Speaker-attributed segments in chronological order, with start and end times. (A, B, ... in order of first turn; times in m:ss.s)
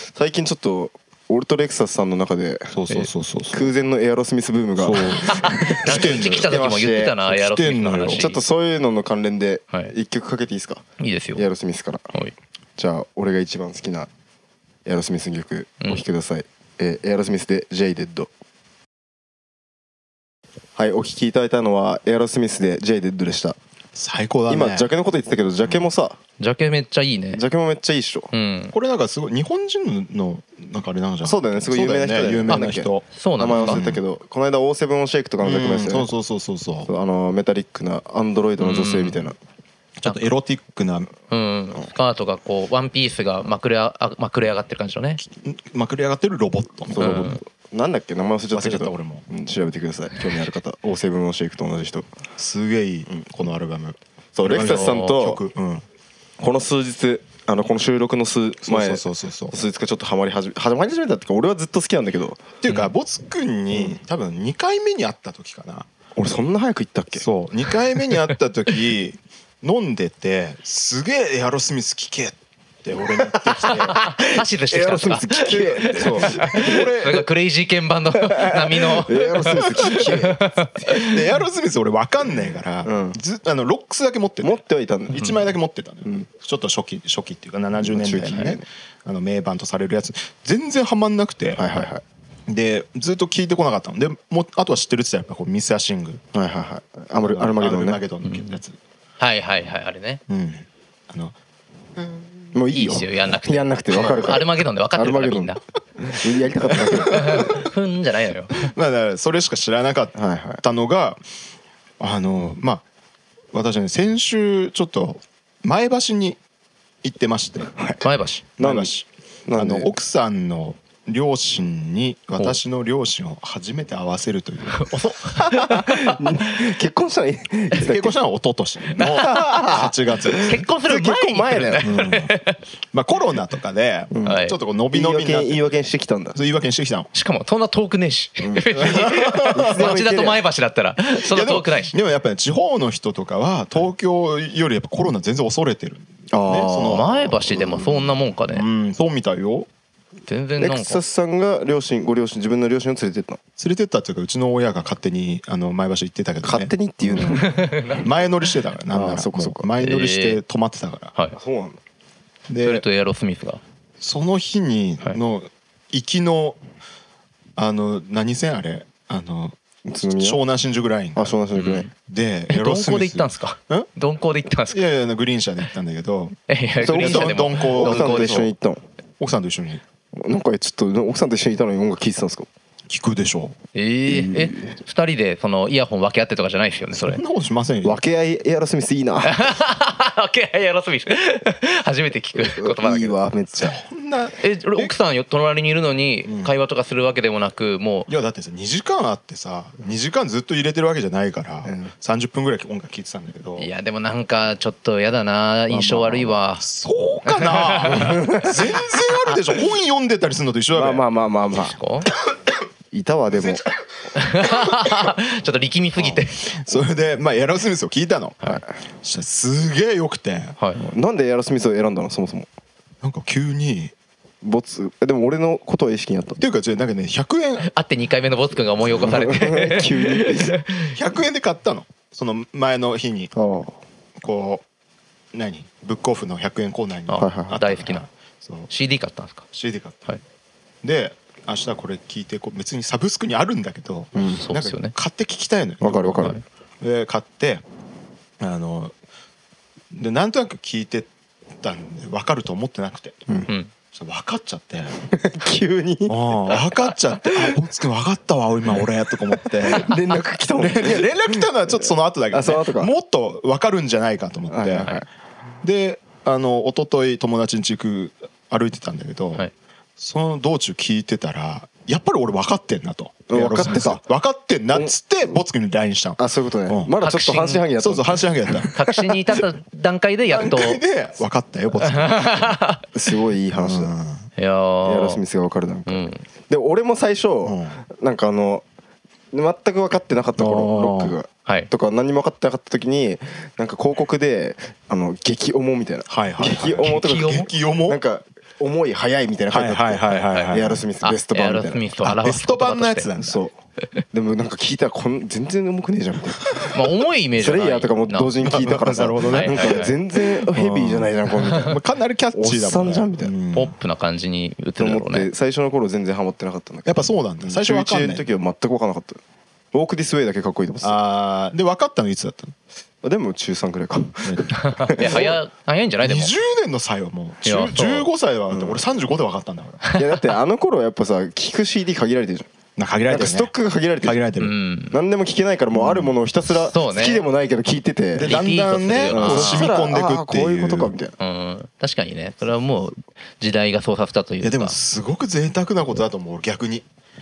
0:00.1-0:02.8 A
0:02.7-0:03.7 B
0:03.5-0:07.2 A
0:04.8-0:06.5 B
0:05.2-0:08.4 C
0:07.2-0:08.2 B
0:08.1-0:10.8 A
0:11.0-0:11.4 C
0:11.4-0:12.0 A
0:12.8-0:14.1 A
0:14.8-0:18.3 A
0:20.8-0:23.6 A
0:23.9-0:24.9 B
0:24.5-0:26.2 A
0:26.4-0:27.4 C
0:27.3-0:28.3 A
0:28.3-0:28.7 C
0:28.7-0:34.0 B
0:31.2-0:36.1 A
0:32.5-0:33.8 C
0:35.4-0:36.9 B
0:36.8-0:39.4 A
0:38.6-0:39.2 C
0:40.0-0:41.1 B
0:41.3-0:45.2 C
0:45.4-0:47.4 B
0:46.9-0:52.1 A
0:47.0-0:47.4 C
0:48.5-0:49.3 B
0:52.4-0:55.8 B
0:54.4-0:55.4 A
0:54.5-0:55.2 C
0:56.4-1:02.5 A
0:58.6-0:59.6 B
1:02.6-1:05.9 B
1:06.2-1:07.2 A
1:07.2-1:14.0 B
1:13.2-1:16.9 A
1:13.7-1:21.1 C
1:15.6-1:17.2 B
1:18.2-1:20.5 A
1:19.8-1:20.1 B
1:20.9-1:31.9 B
1:22.8-1:23.2 A
1:24.4-1:25.3 A
1:27.8-1:28.6 A
1:31.6-1:32.0 A
1:32.5-1:36.2 B
1:36.3-1:38.0 A
1:37.2-1:38.8 B
1:38.2-1:38.6 C
1:39.2-1:40.2 C
1:40.3-1:41.3 B
1:42.0-1:42.3 B
1:42.5-1:47.6 A
1:42.7-1:45.6 C
1:46.7-1:47.7 B
1:47.0-1:48.7 C
1:48.5-1:51.2 B
1:50.2-1:50.6 A
1:52.0-1:52.8 B
1:53.5-1:56.4 B
1:57.0-1:57.7 B
1:57.8-1:58.0 A
1:58.0-1:58.4 C
1:58.6-1:58.9 A
1:58.6-2:05.7 B
1:59.5-1:59.9 A
2:04.7-2:06.2 C
2:05.8-2:08.2 A
2:07.7-2:10.6 B
2:09.0-2:11.8 A
2:09.0-2:09.5 C
2:10.4-2:12.6 C
2:11.8-2:12.4 B
2:12.9-2:15.7 B
2:14.1-2:16.4 A
2:14.2-2:14.6 C
2:16.3-2:17.1 B
2:17.1-2:21.9 C
2:18.4-2:18.7 A
2:18.8-2:20.0 B
2:19.4-2:20.4 A
2:21.2-2:27.7 B
2:26.3-2:28.0 A
2:26.9-2:28.6 C
2:28.5-2:29.7 B
2:30.3-2:31.0 C
2:30.6-2:33.4 A
2:33.6-2:41.1 B
2:36.4-2:37.5 A
2:37.2-2:38.1 C
2:38.9-2:39.7 A
2:39.8-2:40.4 C
2:41.3-2:41.8 A
2:42.5-2:42.8 B
2:42.6-2:43.6 C
2:44.0-2:46.6 B
2:47.6-2:51.4 B
2:49.8-2:50.4 A
2:51.2-2:51.9 A
2:51.5-2:51.9 C
2:52.0-2:53.9 B
2:52.5-2:54.8 C
2:54.7-2:56.4 B
2:56.5-2:58.5 C
2:56.8-2:58.8 A
2:56.9-2:58.5 B
2:59.2-2:59.8 B
3:00.1-3:02.5 A
3:02.9-3:03.6 B
3:03.7-3:07.2 C
3:04.1-3:04.7 A
3:06.9-3:08.0 B
3:07.8-3:09.4 A
3:09.2-3:13.2 C
3:12.4-3:13.8 A
3:13.6-3:14.9 B
3:14.4-3:18.1 C
3:16.2-3:16.5 B
3:18.1-3:23.7 B
3:21.6-3:21.9 A
3:23.6-3:26.6 C
3:25.7-3:26.4 A
3:26.6-3:31.0 B
3:27.2-3:28.3 C
3:27.9-3:28.6 A
3:30.7-3:31.8 A
3:31.7-3:32.1 C
3:32.9-3:33.6 A
3:34.1-3:36.4 C
3:34.5-3:34.9 B
3:36.0-3:40.6 B
3:40.8-3:42.5 A
3:43.0-3:43.9 B
3:44.4-3:46.4 A
3:46.4-3:47.7 B
3:47.6-3:51.0 C
3:48.9-3:50.6 A
3:50.9-3:53.3 B
3:53.3-3:53.8 A
3:54.2-3:54.6 B
3:55.3-3:58.7 B
3:57.1-3:58.0 C
3:57.2-3:57.6 A
3:58.7-3:59.4 C
3:59.5-4:00.0 B
4:00.8-4:07.6 B
4:04.1-4:04.4 A
4:04.3-4:04.9 C
4:05.8-4:06.4 A
4:08.4-4:08.9 B
4:09.9-4:13.2 B
4:13.9-4:15.0 B
4:15.1-4:16.2 A
4:16.1-4:19.9 B
4:19.4-4:22.9 A
4:20.6-4:25.0 B
4:24.5-4:25.0 A
4:25.6-4:29.4 B
4:30.0-4:36.9 B
4:33.3-4:34.0 A
4:36.2-4:39.1 A
4:37.0-4:37.6 C
4:37.8-4:38.7 B
4:38.7-4:40.8 C
4:40.3-4:42.6 B
4:41.8-4:42.8 C
4:42.9-4:43.9 A
4:43.5-4:44.2 B
4:44.4-4:45.2 C
4:44.8-4:48.6 A
4:45.9-4:46.2 C
4:47.4-4:47.8 B
4:49.3-5:01.9 A
4:50.4-4:51.2 B
4:56.1-4:58.0 B
4:56.8-4:57.5 C
4:59.5-5:00.8 B
5:00.2-5:03.1 C
5:02.0-5:03.4 B
5:03.2-5:03.5 A
5:04.1-5:06.8 A
5:06.7-5:08.3 C
5:07.4-5:11.8 A
5:08.4-5:09.9 B
5:09.2-5:09.9 C
5:10.4-5:13.7 B
5:12.3-5:13.3 A
5:13.5-5:15.3 C
5:14.8-5:19.2 A
5:16.8-5:18.2 B
5:19.7-5:21.0 A
5:20.8-5:22.5 B
5:23.0-5:25.3 A
5:24.2-5:25.4 B
5:24.5-5:26.3 C
5:26.0-5:29.8 B
5:27.4-5:28.1 C
5:28.5-5:28.8 A
5:29.9-5:32.5 A
5:32.8-5:34.5 B
5:33.1-5:34.2 A
5:34.4-5:35.0 C
5:34.9-5:38.3 A
5:35.7-5:36.1 B
5:36.6-5:37.2 C
5:38.2-5:40.9 B
5:38.2-5:39.7 C
5:39.1-5:41.1 A
5:41.2-5:44.8 C
5:44.4-5:46.8 B